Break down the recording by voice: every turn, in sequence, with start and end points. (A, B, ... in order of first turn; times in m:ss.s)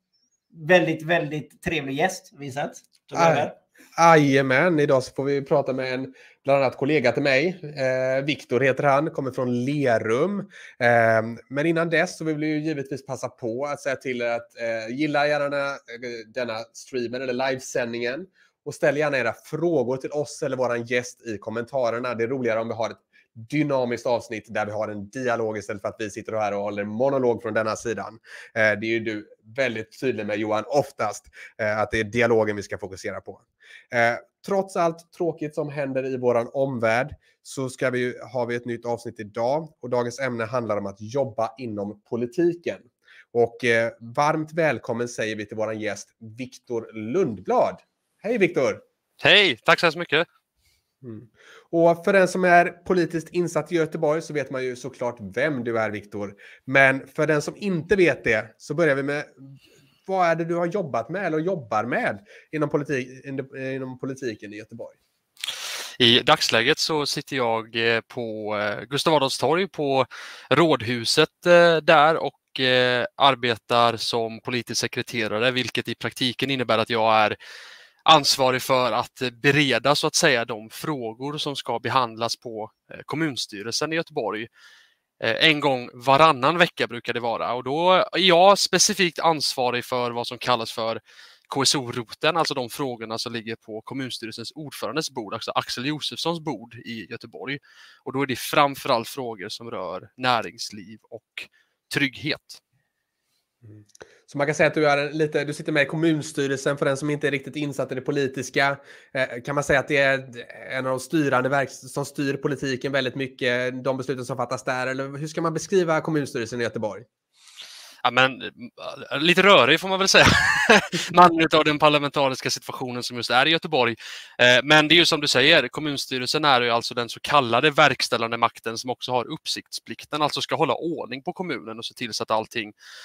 0:00.5-0:03.6 A
0:03.1-0:48.8 B
0:49.2-0:50.3 C
0:51.0-1:05.0 B
1:06.0-1:17.4 C
1:18.0-1:24.5 C
1:25.2-1:42.6 C
1:43.6-1:57.0 B
1:58.0-2:12.7 C